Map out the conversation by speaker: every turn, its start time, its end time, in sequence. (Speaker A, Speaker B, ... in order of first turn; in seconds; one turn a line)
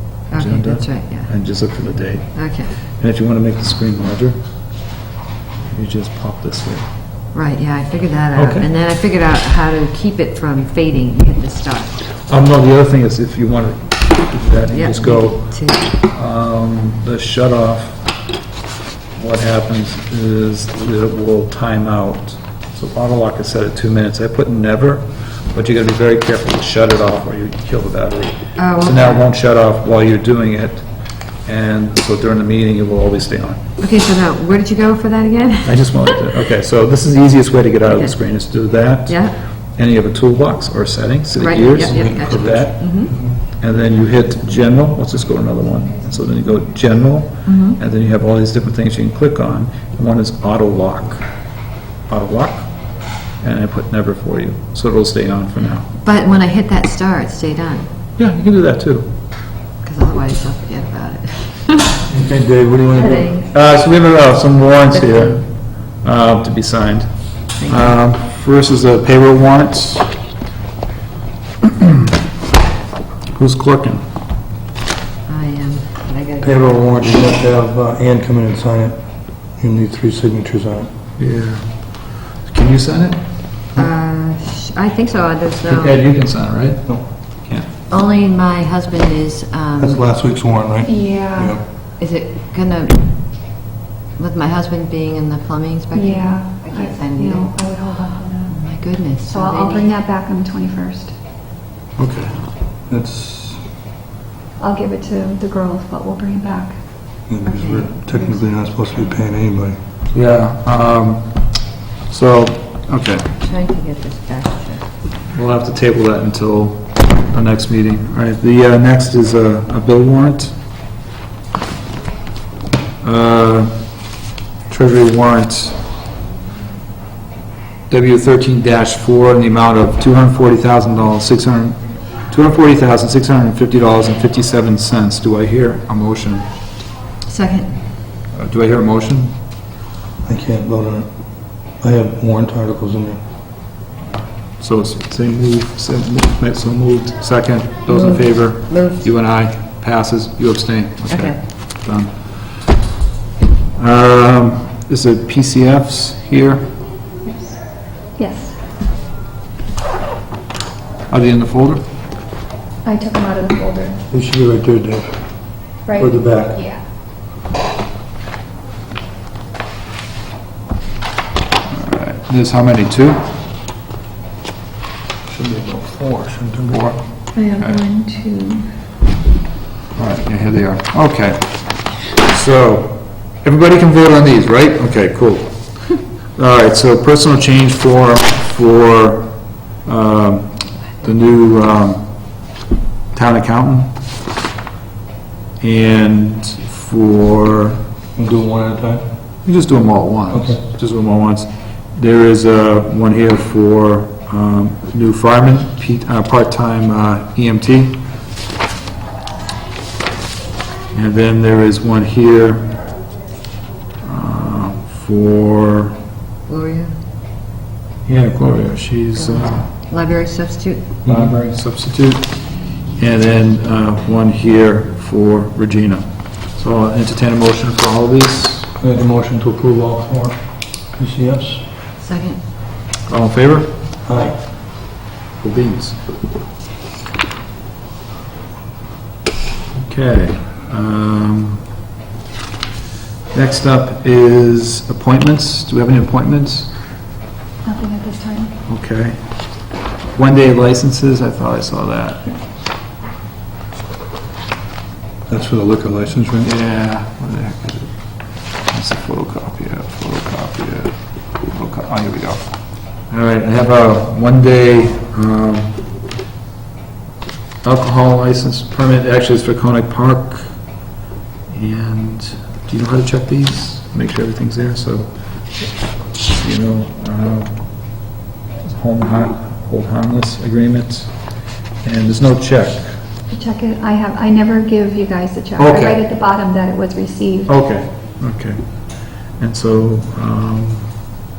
Speaker A: 0.2-1.3
Speaker B: 0.3-4.4
Speaker A: 2.3-2.7
Speaker B: 5.7-6.9
Speaker A: 7.3-12.0
Speaker B: 8.3-8.7
Speaker B: 12.1-18.0
Speaker A: 14.7-15.9
Speaker B: 19.1-30.9
Speaker A: 28.6-29.3
Speaker B: 31.4-33.6
Speaker A: 33.8-36.4
Speaker B: 35.6-41.9
Speaker A: 37.8-38.2
Speaker A: 39.0-39.4
Speaker A: 41.4-43.1
Speaker C: 41.8-43.3
Speaker B: 43.5-51.2
Speaker A: 47.4-47.8
Speaker B: 52.1-52.7
Speaker B: 53.4-55.9
Speaker A: 55.9-57.9
Speaker B: 58.2-59.1
Speaker A: 59.8-62.0
Speaker C: 62.1-63.3
Speaker A: 62.9-63.5
Speaker B: 63.5-65.5
Speaker A: 64.9-65.5
Speaker B: 66.0-70.2
Speaker A: 67.6-68.0
Speaker B: 71.6-72.1
Speaker B: 73.3-74.0
Speaker A: 75.3-76.6
Speaker C: 76.4-79.0
Speaker C: 79.6-80.9
Speaker B: 81.2-81.8
Speaker B: 82.4-83.9
Speaker A: 83.7-86.0
Speaker B: 85.5-87.7
Speaker A: 87.9-90.0
Speaker C: 89.8-91.6
Speaker D: 90.8-91.6
Speaker A: 92.0-93.1
Speaker A: 94.2-97.5
Speaker D: 95.9-98.6
Speaker A: 98.5-99.9
Speaker D: 99.3-101.1
Speaker B: 102.0-102.5
Speaker C: 102.9-103.6
Speaker D: 104.6-106.8
Speaker C: 107.3-109.8
Speaker A: 107.5-107.8
Speaker B: 110.1-111.4
Speaker B: 112.1-113.3
Speaker A: 113.3-114.8
Speaker B: 115.3-120.5
Speaker B: 123.0-123.8
Speaker B: 124.7-125.8
Speaker B: 127.9-136.5
Speaker A: 137.3-137.9
Speaker B: 138.3-139.3
Speaker C: 140.2-141.1
Speaker C: 141.8-143.2
Speaker B: 144.6-152.6
Speaker A: 147.9-149.1
Speaker A: 151.0-151.4
Speaker B: 153.8-156.7
Speaker D: 157.2-157.6
Speaker D: 158.2-158.6
Speaker B: 161.1-161.8
Speaker D: 162.8-164.0
Speaker C: 164.1-165.1
Speaker D: 165.8-166.8
Speaker C: 166.0-166.6
Speaker B: 171.7-173.3
Speaker C: 175.3-176.9
Speaker B: 176.7-177.8
Speaker D: 177.3-178.7
Speaker B: 179.9-192.1
Speaker B: 193.1-193.9
Speaker B: 195.6-197.8
Speaker C: 198.2-199.0
Speaker B: 199.4-208.0
Speaker C: 200.3-200.7
Speaker B: 210.9-212.8
Speaker B: 214.0-216.0
Speaker A: 216.5-216.9
Speaker B: 218.0-219.7
Speaker A: 219.1-220.9
Speaker C: 221.0-221.4
Speaker B: 221.1-222.4
Speaker B: 223.0-228.7
Speaker C: 228.8-230.4
Speaker C: 230.9-231.6
Speaker A: 232.0-232.4
Speaker B: 233.1-233.8
Speaker C: 234.0-234.3
Speaker B: 235.4-236.0
Speaker B: 239.7-241.6
Speaker B: 243.3-246.7
Speaker D: 247.6-248.6
Speaker B: 248.7-249.2
Speaker B: 250.1-252.3
Speaker C: 255.3-256.5
Speaker B: 256.4-257.9
Speaker B: 258.7-262.5
Speaker B: 263.1-265.8
Speaker B: 267.6-270.6
Speaker B: 271.5-275.1
Speaker B: 276.4-277.6
Speaker B: 278.6-281.2
Speaker B: 281.8-283.0
Speaker D: 283.3-287.6
Speaker B: 285.5-286.0
Speaker B: 287.5-290.9